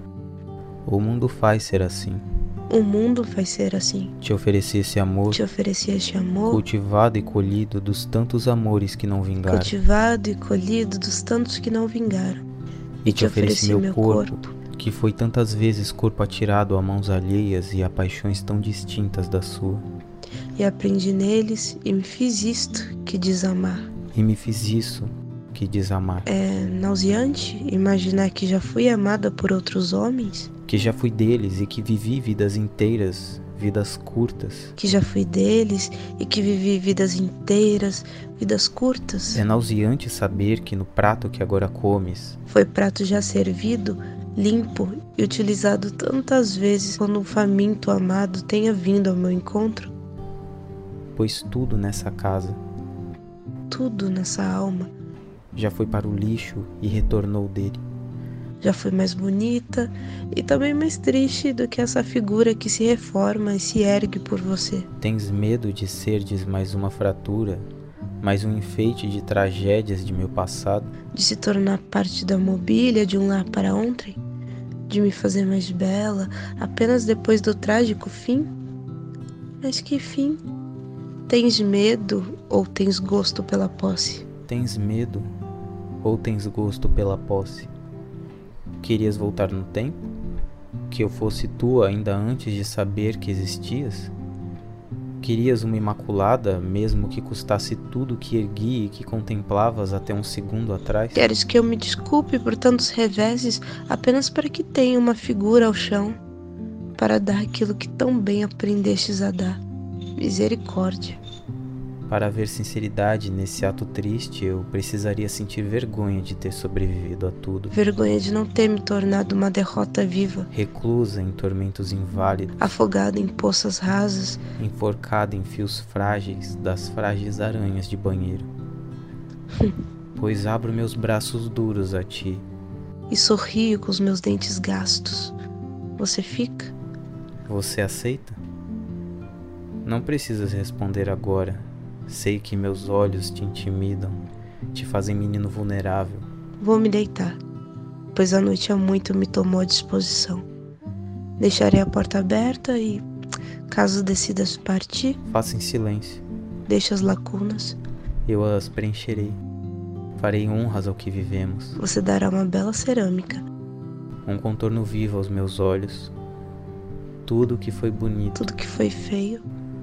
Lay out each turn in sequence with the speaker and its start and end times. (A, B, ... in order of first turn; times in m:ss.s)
0:00.9-0:02.2 A
0:02.7-0:04.1 B
0:04.2-0:05.4 A
0:05.3-0:06.6 B
0:06.5-0:09.8 A
0:09.5-0:12.4 B
0:13.0-0:19.8 A
0:13.1-0:14.5 B
0:20.6-0:23.9 B
0:24.1-0:26.3 A
0:26.3-0:30.5 B
0:30.7-0:34.8 A
0:34.8-0:39.4 B
0:39.3-0:42.4 A
0:42.5-0:49.9 B
0:51.2-0:52.6 A
0:53.7-0:54.9 B
0:55.6-0:57.8 A
0:58.6-1:04.9 B
1:05.0-1:07.7 A
1:08.2-1:10.9 A
1:11.1-1:14.2 B
1:14.9-1:18.5 B
1:19.6-1:20.4 B
1:21.3-1:24.3 B
1:24.5-1:25.3 A
1:26.0-1:27.7 A
1:28.8-1:30.0 A
1:30.9-1:34.1 A
1:35.2-1:41.3 A
1:41.2-1:46.2 B
1:47.0-1:49.6 B
1:50.2-1:51.2 B
1:52.1-1:57.8 A
1:57.7-2:00.5 B
2:00.5-2:02.6 A
2:02.6-2:04.4 B
2:04.6-2:08.5 A
2:10.2-2:12.5 A
2:13.1-2:15.4 B
2:16.0-2:16.7 B
2:17.5-2:18.4 A
2:19.8-2:24.2 A
2:24.7-2:26.3 A
2:26.6-2:27.4 B
2:28.1-2:30.4 B
2:31.4-2:33.0 B
2:33.7-2:35.2 B
2:35.3-2:36.2 A
2:36.7-2:37.8 B
2:38.3-2:39.4 A
2:40.2-2:41.8 A
2:41.8-2:43.4 B
2:44.3-2:46.1 A
2:47.2-2:48.5 A
2:48.4-2:49.4 B